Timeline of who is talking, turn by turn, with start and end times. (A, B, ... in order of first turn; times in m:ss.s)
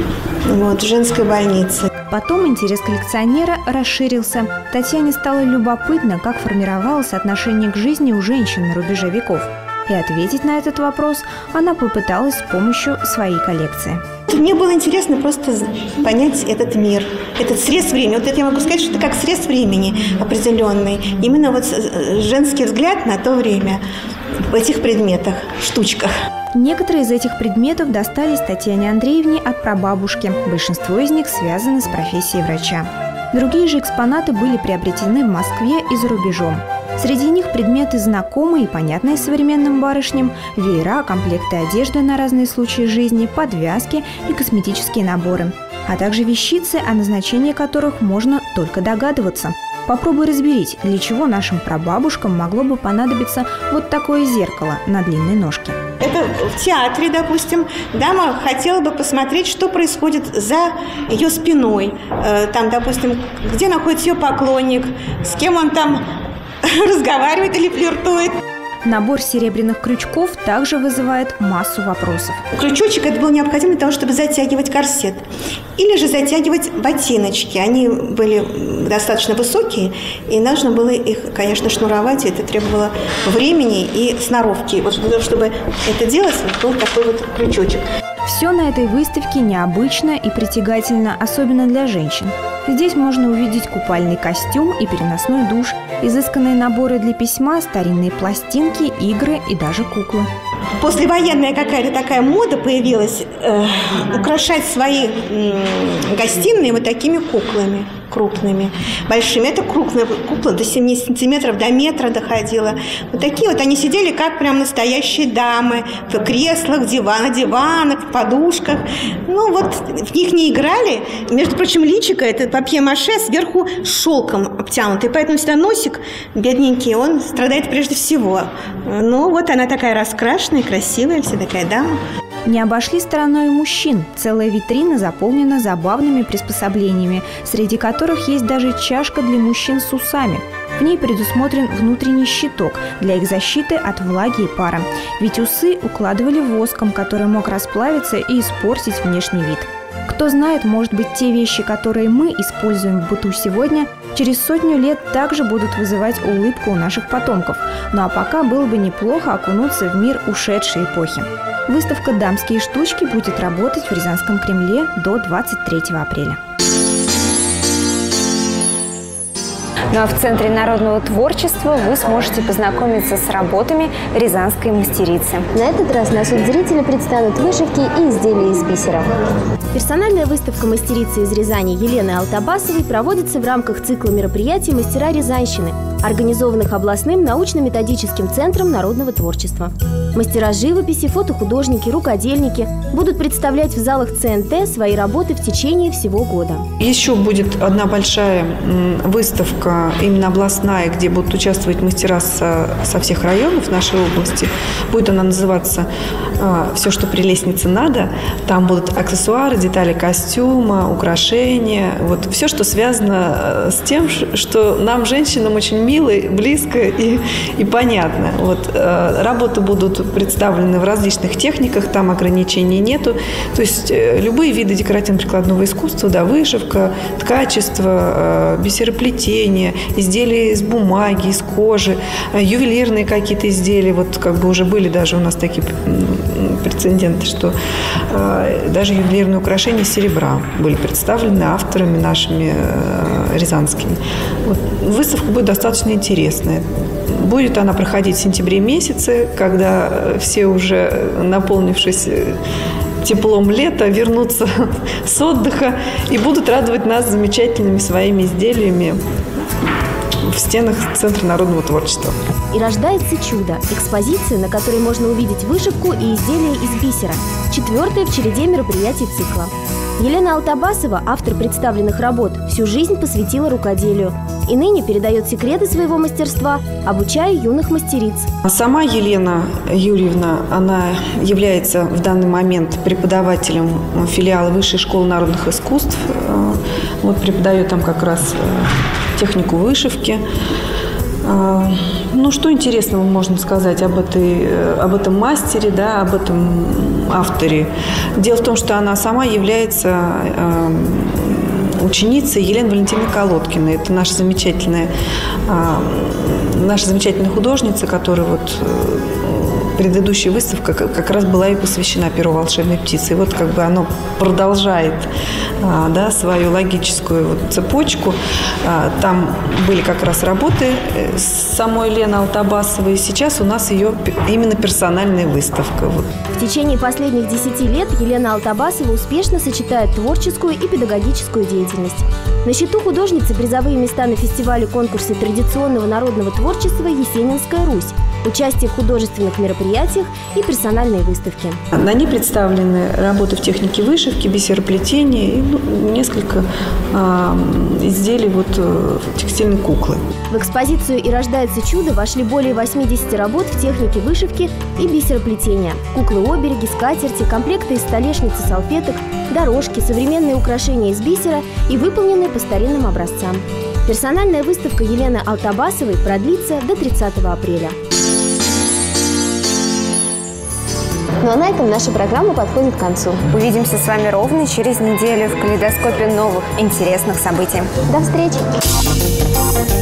0:00.5-0:01.9 A
0:02.1-0:14.0 B
0:14.3-0:23.8 A
0:24.5-0:26.1 A
0:26.5-0:55.8 B
0:56.0-1:06.0 A
1:06.8-1:08.4 A
1:08.9-1:12.4 B
1:12.6-1:15.2 A
1:15.8-1:27.8 A
1:28.2-1:40.3 B
1:40.8-2:12.0 A
2:12.5-2:46.4 B
2:49.9-2:55.5 C
2:55.5-2:59.1 D
2:59.7-3:16.6 D
3:16.8-3:25.9 E
3:26.4-3:57.6 E
3:58.1-4:12.4 E
4:13.0-4:14.5 E
4:15.0-4:19.0 E
4:20.3-4:22.1 E
4:22.5-4:38.3 D
4:38.4-4:50.2 E
4:51.2-5:04.9 E
5:05.5-5:15.1 E
5:15.6-5:26.1 E
5:26.4-5:41.6 D
5:41.7-5:50.0 E
5:50.3-6:07.8 D
6:11.2-6:13.2 D
6:13.3-6:17.7 C
6:17.9-6:18.4 D